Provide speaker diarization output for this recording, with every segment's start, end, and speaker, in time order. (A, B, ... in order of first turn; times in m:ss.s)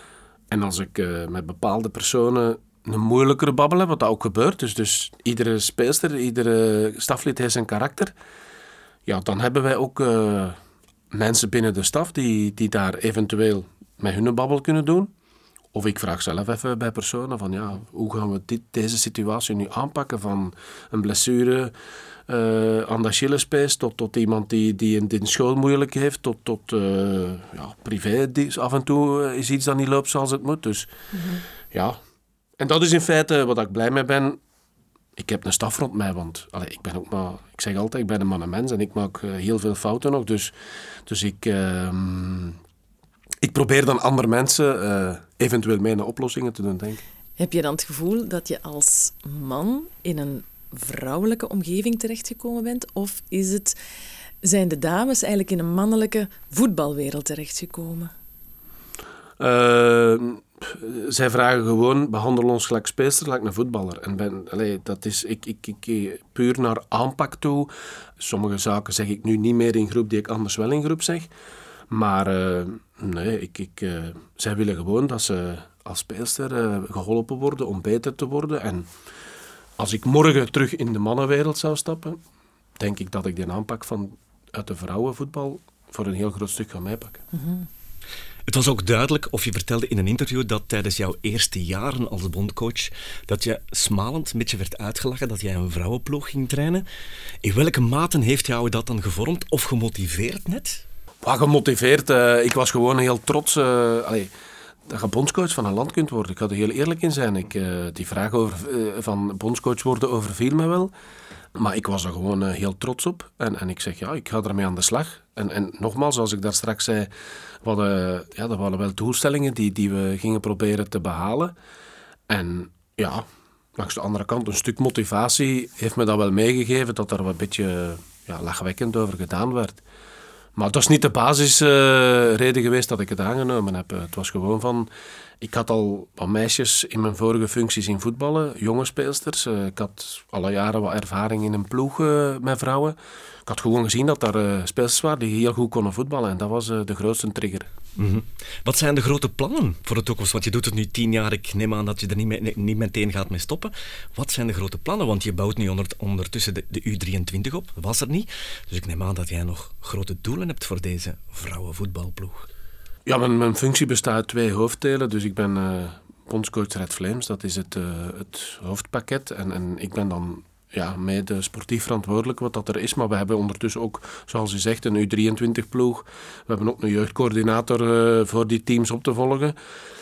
0:00.5-0:08.1 A
0:09.0-0:10.6 A
0:11.1-0:15.1 A
0:15.7-0:21.7 A
0:22.3-0:30.9 A
0:31.1-0:31.4 B
0:31.7-0:32.0 A
0:32.6-0:34.4 A
0:35.2-0:40.5 A
0:41.0-0:42.6 A
0:43.4-0:47.0 A
0:47.4-0:53.8 B
0:54.4-0:58.1 B
0:59.4-1:11.3 A
1:11.9-1:18.9 A
1:19.8-1:22.2 A
1:22.8-1:27.2 A
1:27.3-1:27.7 B
1:28.5-1:36.8 C
1:37.4-1:40.8 C
1:41.2-1:44.3 A
1:44.9-1:50.9 A
1:51.5-1:57.1 A
1:57.6-2:01.5 A
2:02.3-2:09.8 A
2:10.6-2:14.9 A
2:15.4-2:27.7 A
2:28.0-2:42.5 C
2:43.0-2:59.5 A